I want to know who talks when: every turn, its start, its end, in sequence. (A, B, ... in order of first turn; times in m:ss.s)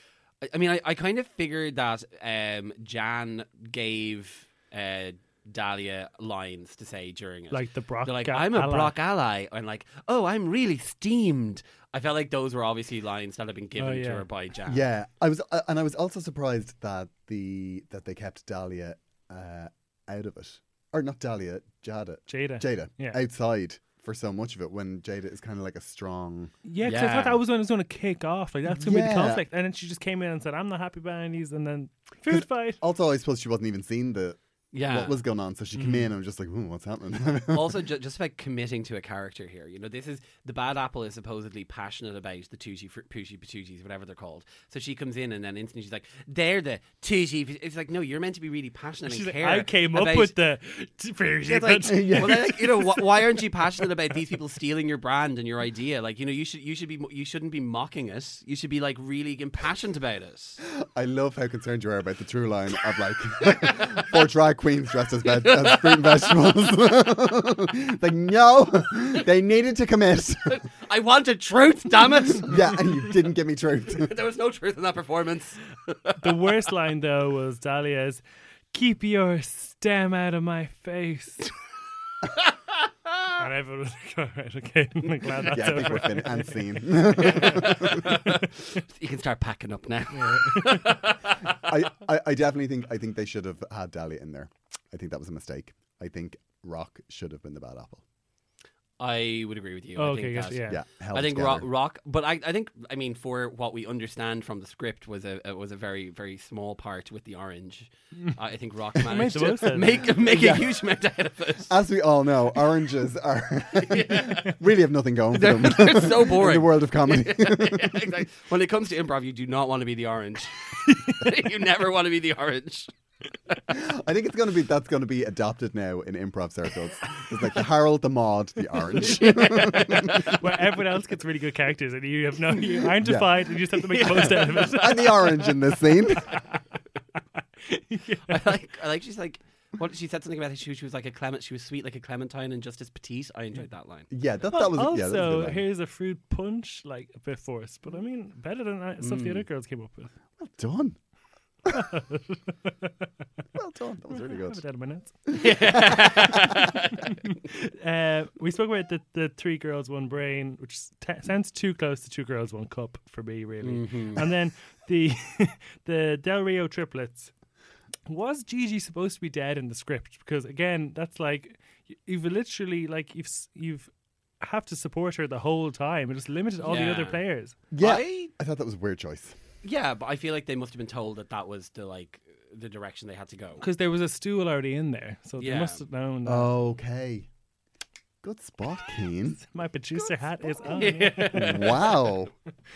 0:00.4-0:14.8 A
0:07.5-0:09.0 B
0:13.8-0:14.2 B
0:14.7-0:26.5 C
0:22.3-0:23.2 B
0:26.6-0:32.8 B
0:26.8-0:27.4 A
0:28.7-0:29.4 C
0:32.3-0:37.8 C
0:34.7-0:35.2 A
0:35.8-0:36.1 B
0:37.5-0:50.3 A
0:49.1-0:53.0 B
0:51.5-1:00.6 A
0:51.9-0:52.6 C
1:00.6-1:10.6 C
1:03.4-1:04.2 A
1:05.2-1:06.2 A
1:10.5-1:12.6 A
1:12.5-1:14.1 C
1:13.9-1:16.4 A
1:16.2-1:21.5 B
1:22.2-1:23.4 A
1:23.4-1:27.7 B
1:25.5-1:28.2 C
1:27.2-1:31.6 A
1:30.1-1:31.0 B
1:31.6-1:38.0 C
1:39.0-1:51.7 A
1:40.0-1:40.8 B
1:40.7-1:41.7 C
1:49.0-1:50.0 B
1:50.2-1:50.8 C
1:51.7-1:58.1 C
1:53.7-1:54.6 A
1:55.3-2:02.9 A
2:00.8-2:01.2 B
2:03.7-2:10.3 C
2:09.0-2:10.4 A
2:10.1-2:15.4 B
2:13.0-2:13.4 C
2:13.9-2:15.1 A
2:14.6-2:16.4 C
2:17.6-2:18.6 B
2:18.3-2:24.1 A
2:24.1-2:25.6 C
2:24.5-2:30.1 B
2:29.0-2:29.4 A
2:30.4-2:31.0 C
2:31.7-2:33.1 B
2:33.6-2:34.6 C
2:34.1-2:47.3 B
2:35.3-2:36.0 C
2:35.4-2:37.1 A
2:43.6-2:44.3 A
2:48.1-2:57.6 B
2:56.6-2:57.2 A
2:57.7-2:59.4 C
2:57.8-2:58.3 A
2:59.6-3:03.6 A
3:03.6-3:06.5 B
3:05.4-3:05.8 A
3:06.2-3:07.3 C
3:08.2-3:09.4 C
3:09.4-3:11.9 B
3:10.6-3:11.9 A
3:11.2-3:12.3 C